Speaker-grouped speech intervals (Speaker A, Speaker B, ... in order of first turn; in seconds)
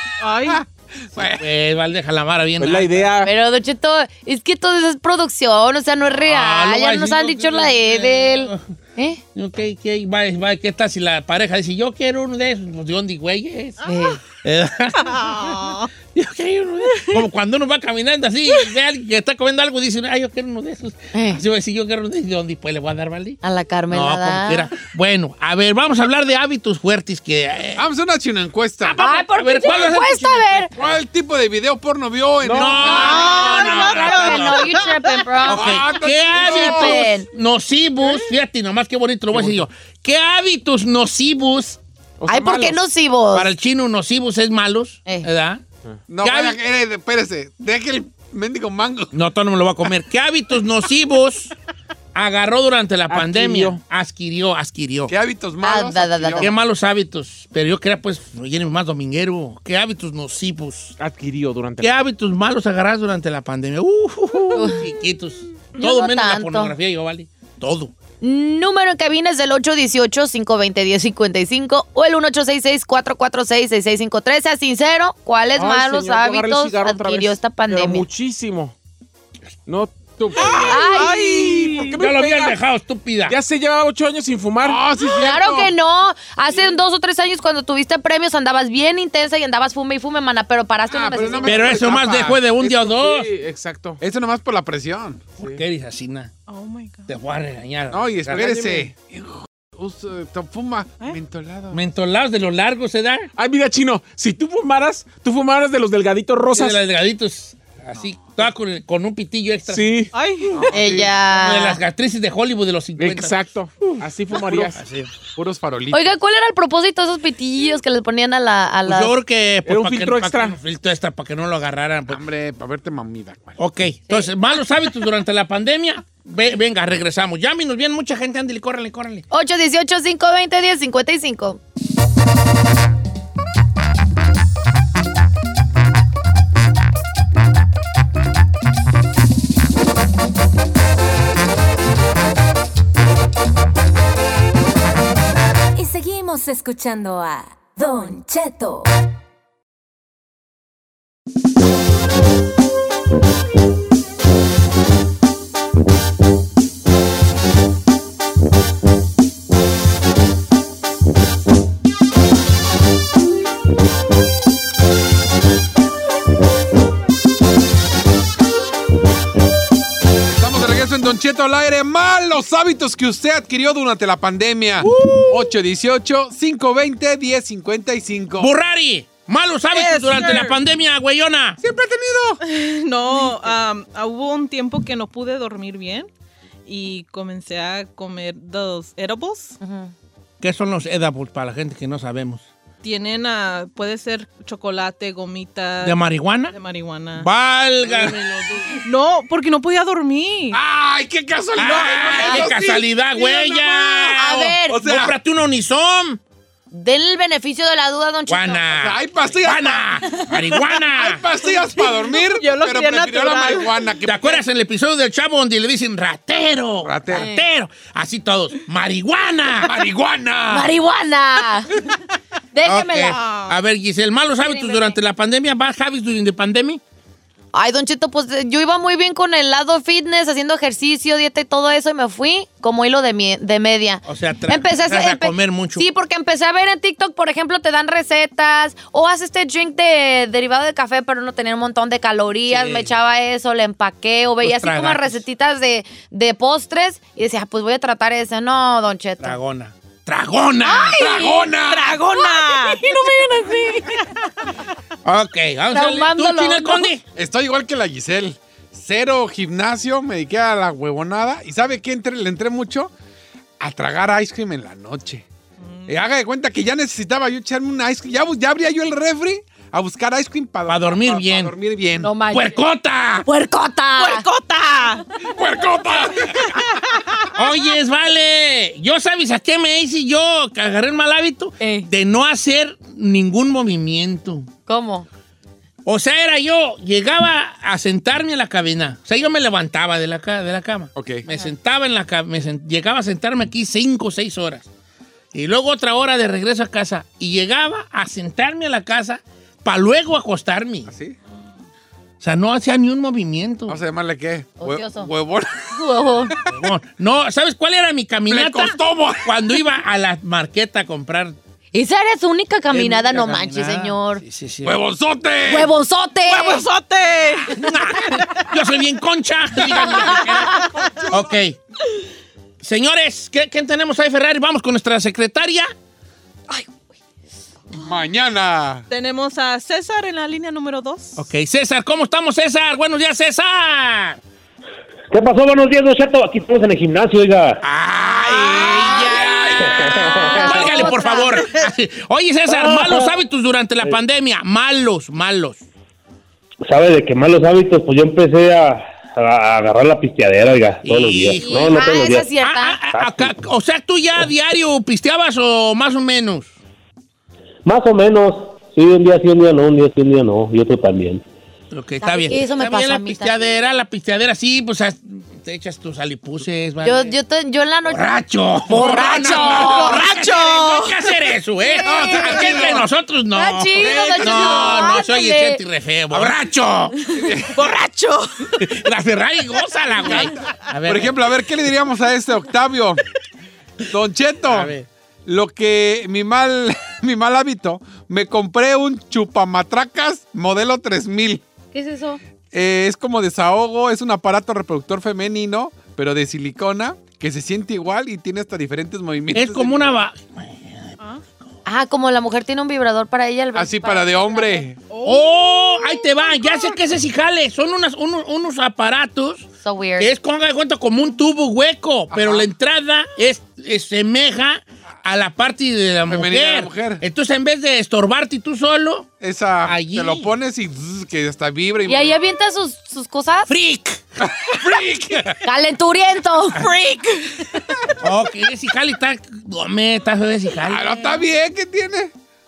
Speaker A: 0.2-0.6, 15.1-15.9, 33.0-35.1, 80.4-82.0, 96.5-97.1, 110.1-110.7, 179.7-180.6, 182.4-186.1, 186.7-189.6, 192.8-197.3, 198.8-200.6, 211.9-213.9, 223.2-223.5, 251.6-254.5, 265.6-266.0, 273.9-275.1, 276.5-276.8, 316.3-318.2, 319.7-321.1, 328.9-331.2, 369.6-371.0, 373.9-374.8, 377.5-378.6, 404.9-406.2, 426.5-427.8
Speaker B: 0.5-1.4, 27.8-29.0, 30.8-33.6, 35.4-37.0, 46.1-49.1, 55.1-56.5, 84.6-85.7, 90.9-92.7, 94.0-95.3, 97.9-101.8, 115.3-116.2, 122.1-123.6, 170.3-178.5, 181.6-182.4, 200.5-204.1, 204.7-205.1, 208.7-210.2, 210.9-214.4, 216.8-217.3, 219.6-220.7, 250.9-252.0, 257.1-262.9, 263.6-265.2, 265.9-272.1, 275.2-276.6, 290.9-291.2, 300.9-301.1, 303.7-305.7, 308.3-309.3, 314.6-315.7, 327.7-328.9, 338.2-340.5, 368.7-370.2, 371.8-372.9, 377.1-377.6, 380.9-383.0, 383.9-384.7, 385.2-391.4, 392.5-399.9, 403.5-404.8, 412.1-412.5, 416.1-417.0, 419.2-422.1, 424.2-425.4, 430.6-432.1
Speaker C: 1.1-3.1, 6.2-8.7, 9.3-27.8, 28.8-30.9, 32.5-34.7, 35.4-41.8, 43.3-45.6, 46.2-46.6, 49.1-51.5, 52.1-55.1, 56.4-60.9, 61.8-67.9, 82.0-83.4, 91.4-93.3, 95.4-96.3, 97.1-98.4, 101.7-103.3, 106.5-110.1, 110.9-115.1, 118.8-122.2, 123.6-129.2, 175.0-175.4, 178.4-181.6, 190.4-192.4, 195.8-196.6, 197.2-198.7, 201.6-206.2, 208.3-211.2, 214.0-219.8, 222.6-226.8, 234.1-235.8, 242.5-242.9, 244.4-245.2, 249.2-251.0, 255.0-257.0, 270.7-271.5, 272.3-273.3, 277.3-284.5, 285.8-294.7, 295.3-300.9, 302.2-303.8, 306.5-311.4, 312.7-314.8, 317.5-321.6, 322.6-325.7, 331.2-334.2, 337.6-345.6, 350.8-356.5, 361.7-367.1, 367.9-377.0, 378.6-381.2, 384.5-384.9, 399.3-400.9, 405.0-419.1, 419.6-420.3, 423.5-424.0, 428.0-431.2
Speaker D: 2.6-3.3, 32.4-32.9, 39.3-39.6, 42.2-42.8, 53.1-53.8, 61.0-61.9, 75.5-78.7, 79.7-82.5, 83.2-84.8, 92.6-94.0, 98.3-98.9, 103.4-106.8, 109.7-110.7, 113.0-114.8, 119.7-120.6
Speaker E: 3.2-9.2, 13.8-14.2, 21.1-21.4, 23.4-24.7, 29.0-30.7, 32.9-37.3, 42.3-43.5, 55.6-56.5, 64.5-64.8, 65.8-66.7, 68.2-78.1, 80.6-81.6, 85.2-91.8, 110.7-111.8, 115.9-119.1, 129.3-131.6, 189.6-189.9, 204.1-204.8, 206.7-208.7, 217.1-217.4, 220.5-221.7, 222.5-223.2, 224.4-225.0, 227.5-249.4, 250.7-251.5, 252.1-253.3, 255.7-256.9, 272.0-272.6, 273.2-274.3, 281.6-281.9, 284.7-285.1, 304.6-305.1, 305.7-306.3, 311.7-314.2, 315.4-316.6, 340.0-341.5, 351.4-352.8, 362.0-363.3, 366.8-368.0, 368.8-370.1, 371.8-372.5, 373.3-375.6, 391.7-392.2, 401.6-404.7, 409.6-410.1, 421.9-423.5, 425.4-426.6
Speaker F: 145.7-148.9
Speaker G: 335.1-337.6, 339.7-340.5, 342.5-343.1, 346.7-352.3, 352.9-353.3, 357.6-361.2